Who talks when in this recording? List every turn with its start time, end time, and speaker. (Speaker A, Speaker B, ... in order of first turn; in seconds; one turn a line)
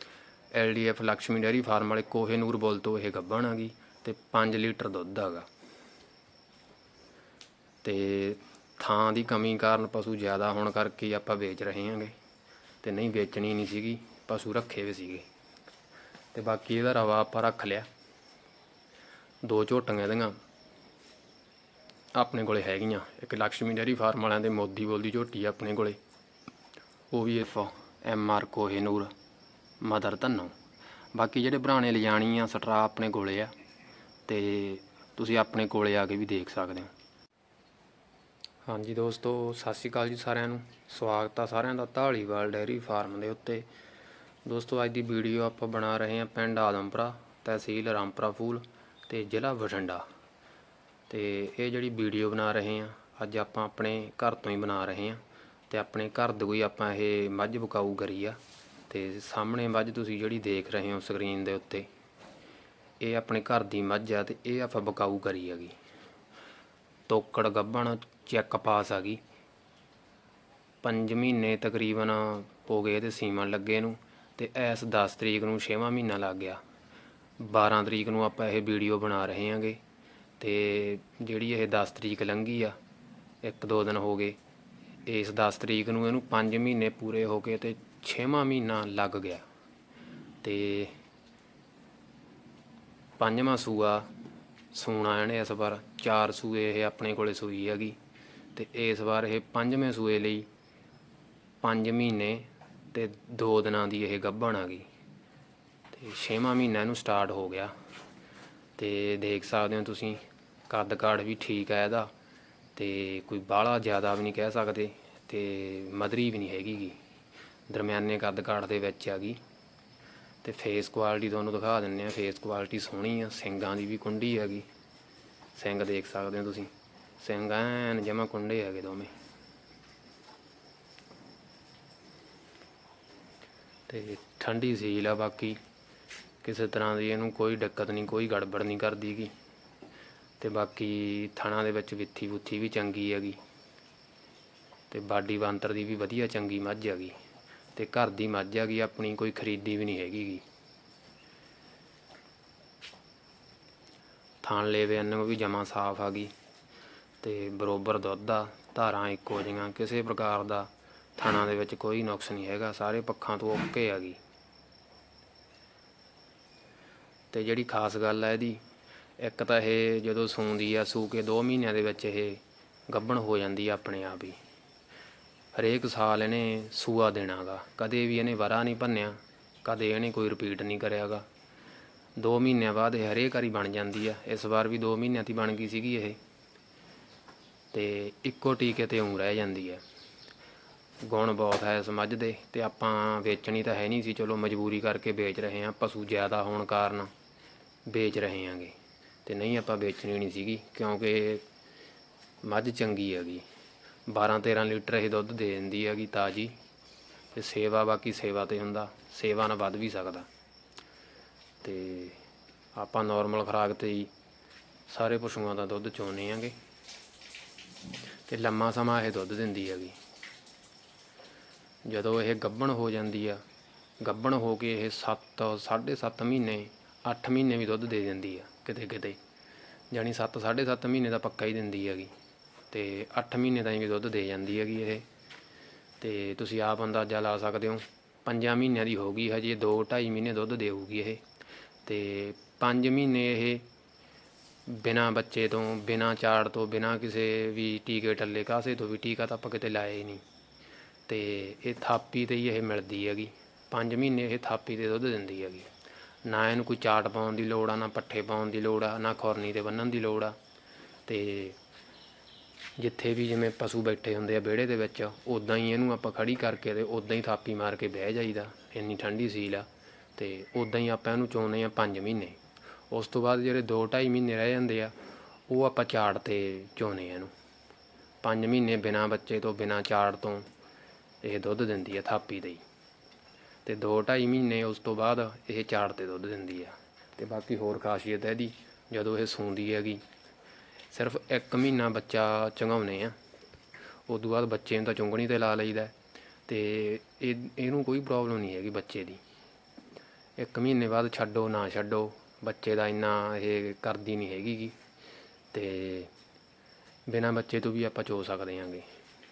Speaker A: 0.5-5.5
Speaker A: 7.8-12.1
Speaker A: 12.8-15.3
Speaker A: 16.3-17.9
Speaker A: 19.4-20.4
Speaker A: 22.1-26.0
Speaker A: 27.1-29.1
Speaker A: 29.8-30.5
Speaker A: 31.1-33.5
Speaker A: 34.3-36.9
Speaker A: 38.7-43.7
Speaker A: 44.5-50.1
Speaker A: 51.1-58.4
Speaker A: 58.9-61.9
Speaker A: 63.0-65.8
Speaker A: 67.1-69.2
Speaker A: 70.8-76.6
Speaker A: 77.4-79.8
Speaker A: 80.4-82.8
Speaker A: 83.4-84.4
Speaker A: 85.1-89.5
Speaker A: 90.4-91.0
Speaker A: 93.2-94.1
Speaker A: 94.7-98.0
Speaker A: 98.5-100.5
Speaker A: 101.6-104.9
Speaker A: 105.9-107.7
Speaker A: 108.8-112.1
Speaker A: 112.8-117.0
Speaker A: 117.7-119.4
Speaker A: 120.4-124.7
Speaker A: 125.5-129.1
Speaker A: 133.9-135.6
Speaker A: 136.4-139.3
Speaker A: 140.4-143.4
Speaker A: 144.9-147.2
Speaker A: 147.8-150.4
Speaker A: 154.4-156.3
Speaker A: 157.2-164.2
Speaker A: 167.3-168.6
Speaker A: 169.2-174.4
Speaker A: 175.6-181.2
Speaker A: 182.2-186.2
Speaker A: 187.7-189.8
Speaker A: 191.0-197.1
Speaker A: 197.9-201.4
Speaker A: 202.4-203.4
Speaker A: 204.1-206.5
Speaker A: 207.3-210.3
Speaker A: 211.6-212.2
Speaker A: 212.7-214.1
Speaker A: 214.9-216.6
Speaker A: 218.3-220.0
Speaker A: 221.8-223.4
Speaker A: 224.0-229.2
Speaker A: 229.9-232.1
Speaker A: 232.7-235.1
Speaker A: 236.0-241.2
Speaker A: 241.9-243.7
Speaker A: 244.7-250.2
Speaker A: 251.1-255.7
Speaker A: 256.2-260.4
Speaker A: 261.1-261.6
Speaker A: 262.8-274.9
Speaker A: 275.5-277.3
Speaker A: 278.2-280.5
Speaker A: 281.2-282.6
Speaker A: 283.6-290.0
Speaker A: 290.9-293.1
Speaker A: 294.1-295.9
Speaker A: 296.5-299.2
Speaker A: 300.4-304.8
Speaker A: 305.5-306.1
Speaker A: 307.1-308.9